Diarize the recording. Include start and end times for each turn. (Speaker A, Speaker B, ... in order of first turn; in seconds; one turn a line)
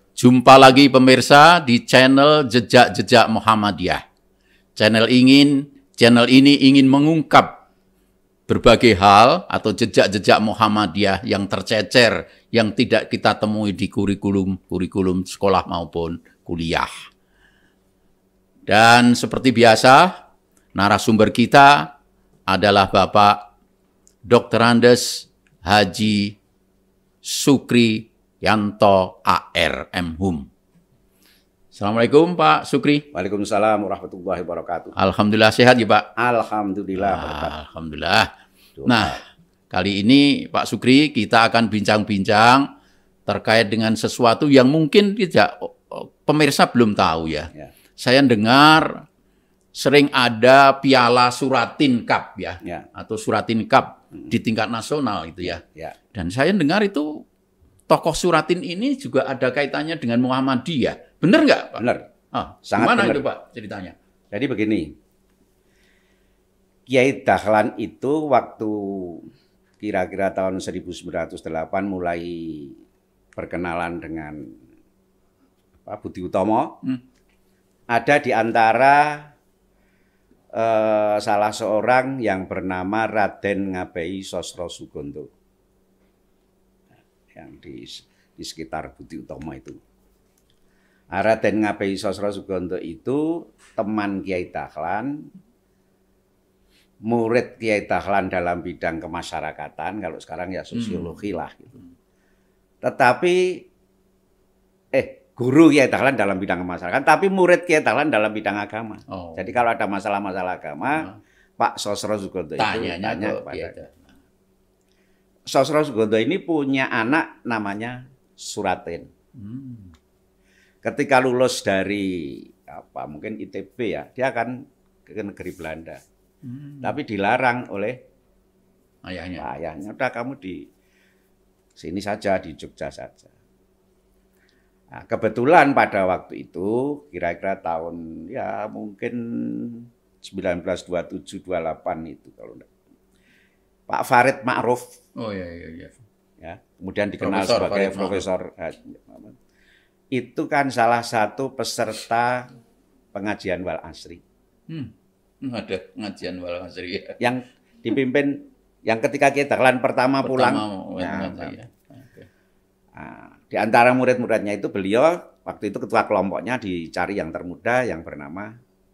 Speaker A: 0.2-4.0
Speaker A: 4.8-7.6
Speaker A: 8.5-16.9
Speaker A: 18.7-20.1
Speaker A: 20.8-21.9
Speaker A: 22.5-23.4
Speaker A: 24.3-26.4
Speaker A: 27.2-30.5
Speaker A: 31.7-33.0
Speaker B: 33.1-34.9
Speaker A: 35.0-36.1
Speaker B: 36.2-37.5
Speaker A: 37.0-38.3
Speaker B: 38.8-39.2
Speaker A: 38.9-39.2
Speaker A: 39.7-42.7
Speaker A: 43.3-49.0
Speaker A: 49.7-55.6
Speaker B: 55.5-56.0
Speaker A: 56.1-57.2
Speaker A: 57.9-64.0
Speaker B: 61.8-62.1
Speaker B: 62.7-63.2
Speaker B: 64.3-64.9
Speaker B: 66.9-69.3
Speaker B: 69.8-72.8
Speaker B: 73.4-74.4
Speaker B: 75.8-76.8
Speaker B: 77.9-79.3
Speaker B: 80.5-85.3
Speaker B: 87.3-89.8
Speaker B: 91.1-95.2
Speaker B: 97.0-101.8
Speaker A: 100.8-101.1
Speaker B: 102.8-103.6
Speaker B: 104.9-113.8
Speaker A: 109.1-109.5
Speaker A: 112.6-114.1
Speaker B: 115.5-119.1
Speaker A: 119.4-119.9
Speaker B: 120.8-126.0
Speaker A: 126.5-127.0
Speaker B: 126.8-128.0
Speaker A: 129.1-129.5
Speaker B: 129.4-130.7
Speaker B: 131.8-133.3
Speaker B: 134.9-142.7
Speaker B: 143.9-144.8
Speaker A: 145.2-146.0
Speaker B: 146.4-149.4
Speaker A: 147.2-148.2
Speaker B: 150.1-152.5
Speaker B: 153.1-154.2
Speaker A: 154.7-157.2
Speaker B: 157.2-161.6
Speaker A: 160.2-162.3
Speaker B: 162.9-168.5